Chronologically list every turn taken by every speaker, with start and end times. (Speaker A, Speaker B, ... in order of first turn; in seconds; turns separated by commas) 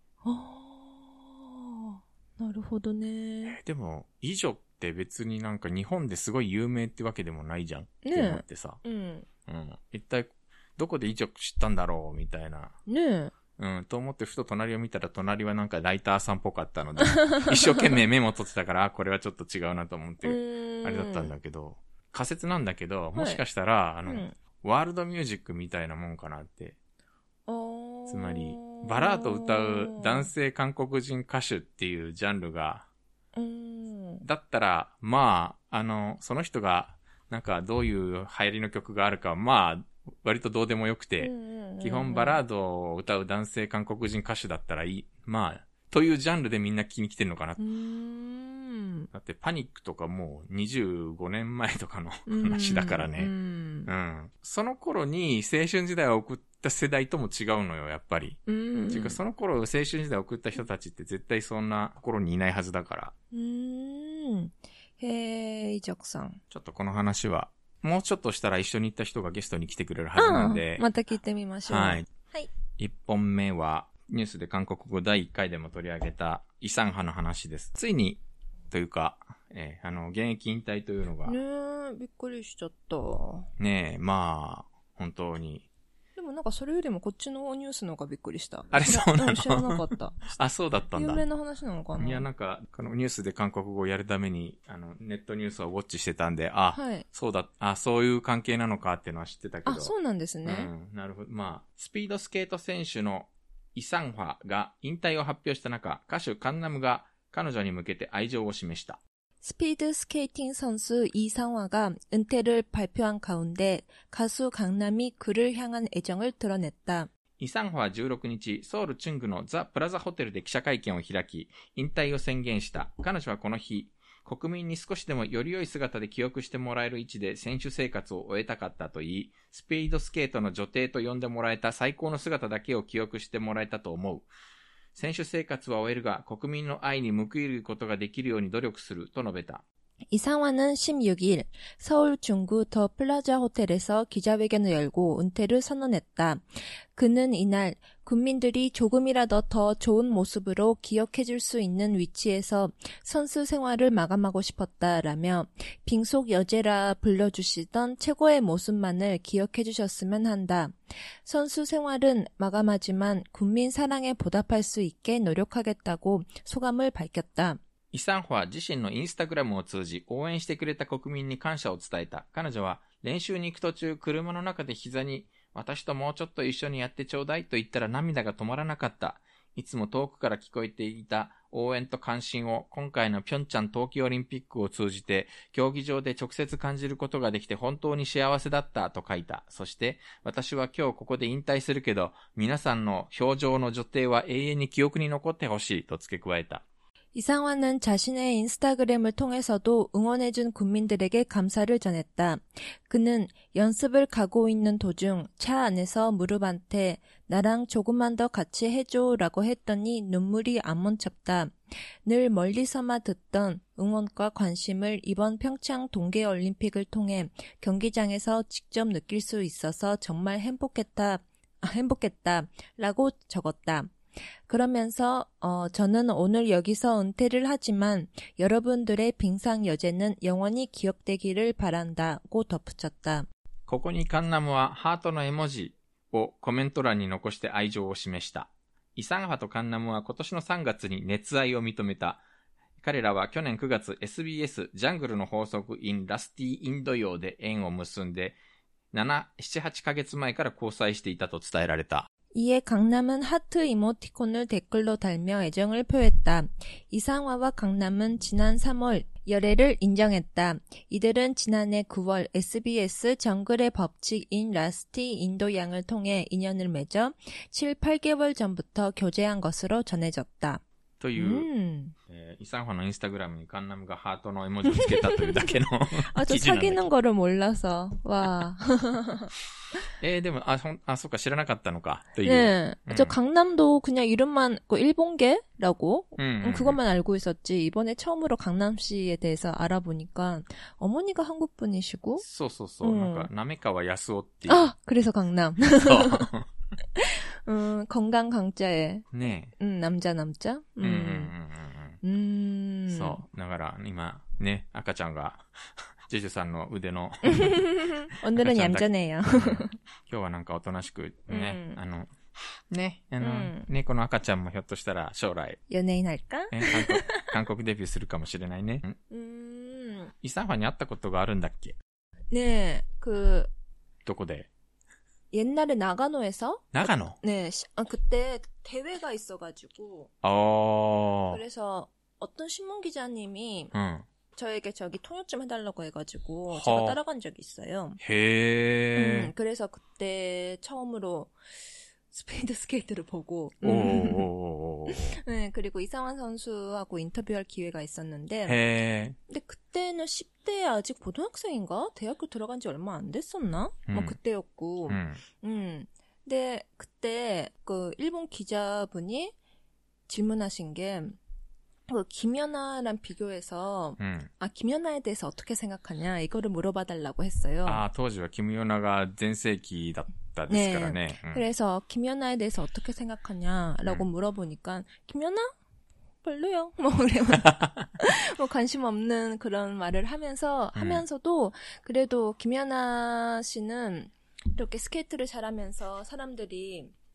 Speaker A: 0.2-3.6, Speaker B: 3.5-8.8, Speaker A: 8.0-9.3, Speaker B: 9.4-12.8, Speaker A: 12.9-13.3, Speaker B: 13.6-26.8, Speaker A: 17.0-17.9, Speaker A: 20.2-21.3, Speaker A: 23.1-23.4, Speaker A: 24.0-24.3, Speaker A: 27.5-30.3, Speaker B: 28.1-32.9, Speaker A: 33.3-34.2, Speaker B: 34.2-47.6, Speaker A: 41.2-42.4, Speaker A: 47.6-49.1, Speaker B: 49.1-53.3, Speaker A: 52.3-53.9, Speaker B: 53.9-63.1, Speaker A: 58.5-59.2, Speaker A: 63.3-66.4, Speaker B: 66.5-70.8, Speaker A: 70.2-72.5, Speaker B: 71.7-72.1, Speaker B: 72.8-81.4, Speaker A: 81.2-83.5, Speaker B: 83.6-85.7, Speaker A: 86.2-90.3, Speaker B: 88.7-91.2, Speaker A: 90.9-92.3, Speaker B: 92.0-99.9, Speaker A: 96.7-97.0, Speaker A: 99.6-100.7, Speaker B: 100.4-109.0, Speaker A: 109.4-117.1, Speaker B: 117.4-134.3, Speaker B: 134.9-139.6, Speaker A: 140.1-146.4, Speaker A: 146.9-167.6, Speaker B: 167.9-196.6, Speaker A: 197.1-223.9, Speaker A: 224.5-233.3, Speaker B: 233.7-242.2, Speaker B: 242.8-248.4, Speaker B: 248.9-252.1, Speaker A: 252.3-270.6, Speaker B: 271.0-271.5, Speaker A: 271.1-271.9, Speaker B: 272.1-276.9, Speaker A: 274.6-279.3, Speaker B: 280.0-283.1, Speaker A: 282.2-292.2, Speaker B: 286.2-286.8, Speaker B: 292.2-294.7, Speaker A: 292.8-293.3, Speaker A: 294.5-296.3, Speaker B: 295.8-296.5, Speaker A: 296.9-299.1, Speaker B: 299.1-299.5, Speaker A: 299.6-301.3, Speaker B: 300.8-302.0, Speaker A: 302.0-303.2, Speaker B: 302.9-305.5, Speaker B: 306.1-307.6, Speaker A: 307.2-309.8, Speaker B: 308.4-312.1, Speaker A: 311.3-311.8, Speaker B: 312.7-315.6, Speaker A: 313.2-313.7, Speaker A: 315.7-317.3, Speaker B: 316.5-319.0, Speaker A: 319.1-320.1, Speaker B: 320.2-321.8, Speaker A: 322.3-323.5, Speaker B: 324.0-324.5, Speaker A: 325.3-330.1, Speaker B: 326.7-327.2, Speaker B: 330.2-331.4, Speaker A: 331.3-333.7, Speaker B: 333.7-334.1, Speaker A: 334.3-338.0, Speaker B: 336.5-337.0, Speaker B: 338.0-339.3, Speaker A: 338.9-341.3, Speaker A: 342.1-344.2, Speaker B: 343.6-345.2, Speaker A: 344.9-348.6, Speaker B: 348.4-349.2, Speaker A: 349.3-359.3, Speaker B: 353.9-354.2, Speaker B: 354.9-355.2, Speaker A: 360.1-361.2, Speaker A: 361.9-367.8, Speaker B: 364.0-364.3, Speaker B: 367.6-371.4, Speaker A: 370.5-375.5, Speaker A: 376.2-386.9, Speaker B: 380.7-381.0